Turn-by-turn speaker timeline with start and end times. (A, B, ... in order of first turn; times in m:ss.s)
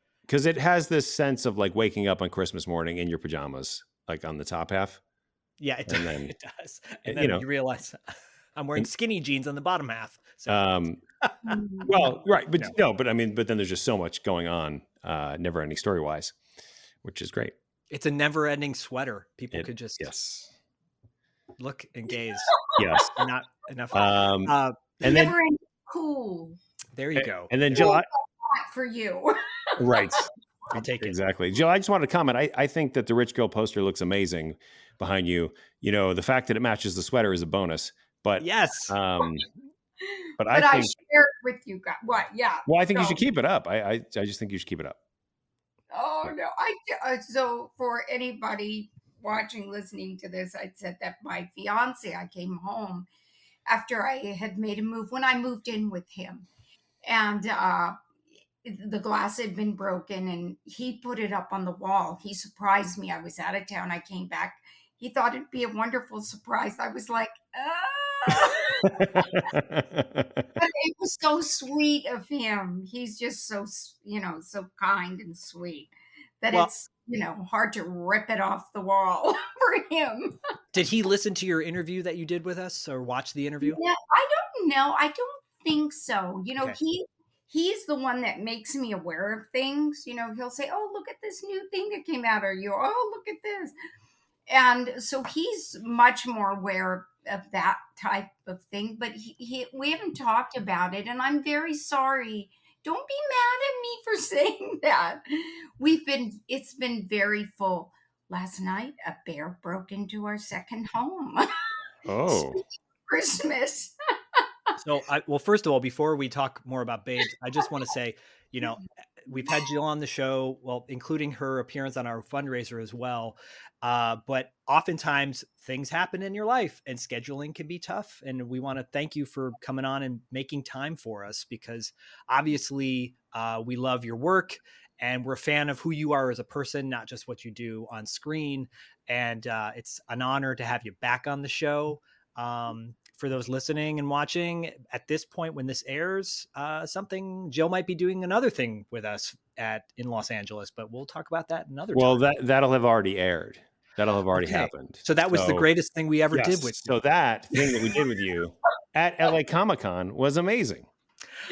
0:00.3-0:05.0 A
0:05.6-0:08.0 B
0:05.9-0:06.3 A
0:07.0-0:07.4 A
0:08.6-0:10.6 B
0:10.5-0:11.0 A
0:11.4-0:11.9 C
0:11.8-0:16.3 A
0:17.0-0:17.5 A
0:17.9-0:20.1 B
0:19.5-0:20.5 A
0:21.6-0:25.0 B
0:22.8-0:23.2 A
0:23.9-0:25.3 A
0:25.0-0:26.6 C
0:27.0-0:27.9 B
0:27.1-0:28.1 A
0:27.7-0:30.1 C
0:29.8-0:39.5 A
0:30.7-0:31.2 B
0:38.4-0:39.0 B
0:40.0-0:43.2 C
0:40.4-0:40.9 A
0:42.7-0:45.0 A
0:45.9-0:53.1 C
0:53.7-0:56.5 C
0:57.0-0:58.0 C
0:58.6-1:09.6 C
1:08.8-1:10.4 A
1:10.6-1:20.4 C
1:20.7-1:23.8 B
1:23.6-1:33.7 C
1:34.5-1:51.5 C
1:52.0-1:52.6 A
1:52.3-1:54.4 C
1:54.8-2:32.3 B
1:59.3-1:59.7 C
2:31.9-2:35.7 A
2:34.3-2:36.9 B
2:36.3-2:40.9 A